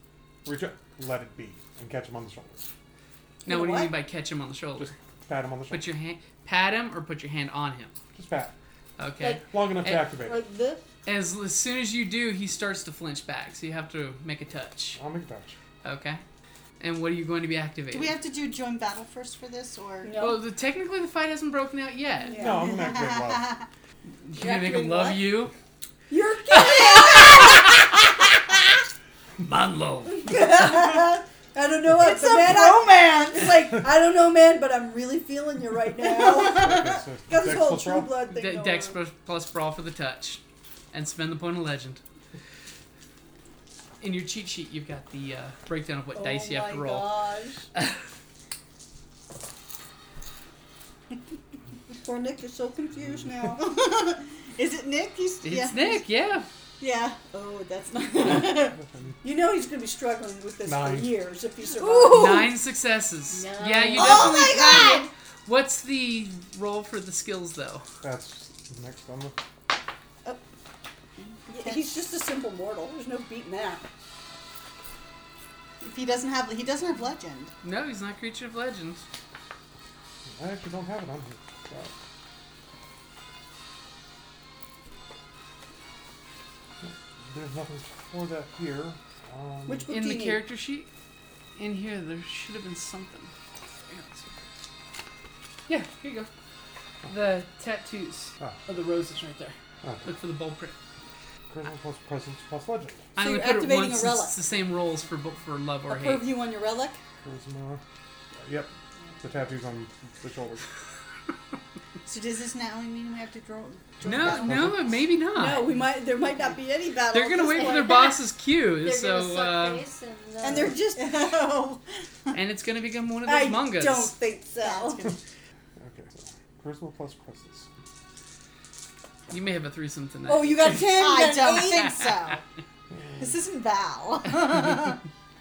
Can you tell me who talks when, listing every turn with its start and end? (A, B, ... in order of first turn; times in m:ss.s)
0:00.4-0:02.6 A
0:03.4-0:03.9 B
0:03.4-0:04.9 C
0:04.8-0:05.8 A
0:05.7-0:07.9 C
0:08.1-0:08.5 A
0:09.0-0:10.1 C
0:09.4-0:10.4 A
0:10.1-0:10.8 B
0:11.0-0:15.0 C
0:15.0-0:15.6 A
0:15.8-0:16.2 C
0:16.8-0:18.2 C
0:17.9-0:20.2 D
0:20.0-0:20.4 B
0:20.2-0:22.4 C
0:22.3-0:22.8 B
0:22.3-0:23.6 A
0:22.6-0:23.6 D
0:24.1-0:25.5 C
0:24.4-0:25.3 B
0:26.1-0:27.9 B
0:29.4-0:30.3 C
0:30.1-0:39.0 B
0:32.0-0:33.8 D
0:36.4-0:38.1 A
0:38.3-0:40.4 C
0:40.9-0:42.0 C
0:44.0-0:47.2 C
0:46.1-0:47.6 B
0:52.0-0:53.6 B
0:53.5-0:56.0 D
0:55.4-0:56.5 C
0:56.8-0:58.8 D
0:58.8-0:59.2 A
0:59.2-1:02.5 B
1:00.6-1:01.1 A
1:01.8-1:02.6 D
1:02.1-1:07.8 C
1:03.4-1:04.4 B
1:03.9-1:05.1 D
1:08.0-1:09.4 A
1:11.2-1:11.9 D
1:11.5-1:13.8 B
1:15.8-1:17.5 D
1:17.6-1:19.0 C
1:20.3-1:21.9 A
1:26.8-1:29.9 A
1:29.7-1:30.4 B
1:29.9-1:30.9 C
1:31.6-1:33.3 C
1:35.7-1:36.3 C
1:37.1-1:40.8 C
1:39.8-1:40.1 A
1:41.5-1:43.1 A
1:43.2-1:46.3 C
1:43.2-1:44.4 B
1:45.9-1:47.0 B
1:47.2-1:47.8 A
1:48.4-1:50.6 A
1:52.1-1:54.8 D
1:54.0-1:55.7 C
1:54.1-1:54.9 A
1:55.3-1:58.0 B
1:57.1-1:59.8 C
1:57.7-1:58.1 E
1:58.8-2:00.8 E
2:00.4-2:01.3 B
2:00.9-2:02.4 D
2:02.3-2:04.1 C
2:03.3-2:05.1 B
2:04.6-2:05.2 D
2:05.8-2:07.7 A
2:09.3-2:10.9 C
2:10.3-2:12.0 B
2:10.9-2:12.4 D
2:11.8-2:12.3 C
2:12.9-2:13.3 A
2:13.2-2:15.0 D